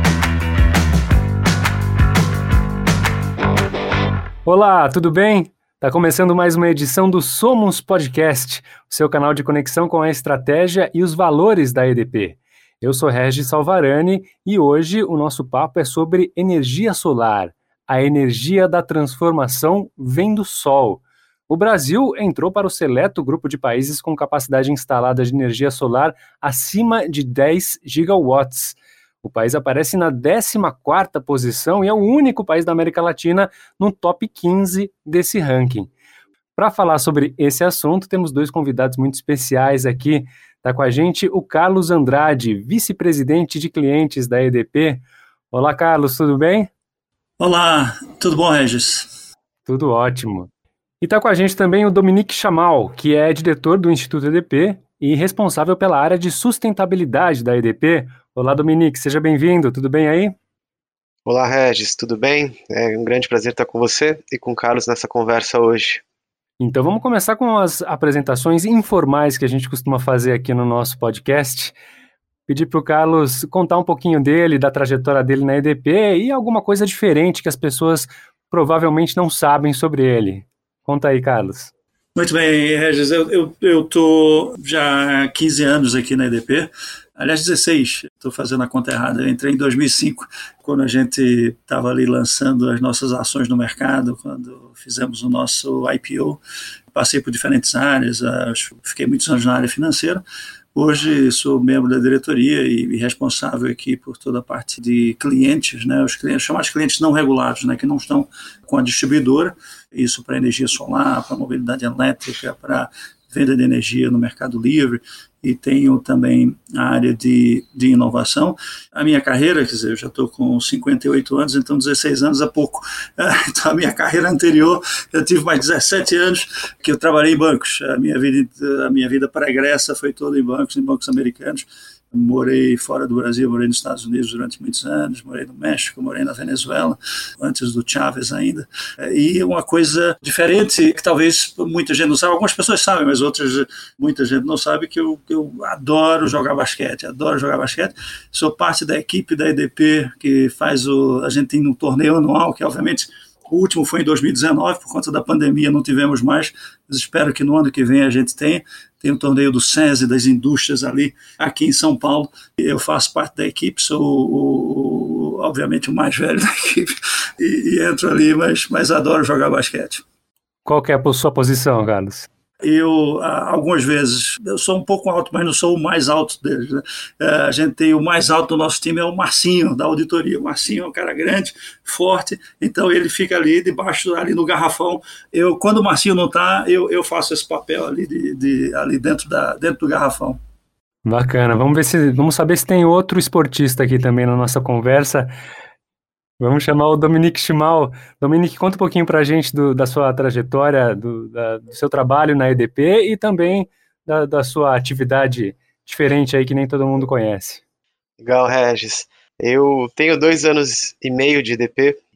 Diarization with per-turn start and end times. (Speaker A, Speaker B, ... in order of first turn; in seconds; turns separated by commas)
Speaker A: 4.5-35.9, Speaker A: 36.5-46.7, Speaker B: 47.4-49.1, Speaker A: 49.6-50.5, Speaker A: 51.0-60.3, Speaker C: 61.2-66.0, Speaker A: 66.6-71.8, Speaker A: 72.5-81.7, Speaker B: 82.1-96.4, Speaker B: 96.9-100.2, Speaker B: 100.7-170.0, Speaker A: 170.7-172.3, Speaker B: 172.6-190.4, Speaker A: 191.1-195.3, Speaker A: 196.4-207.6, Speaker C: 208.2-212.0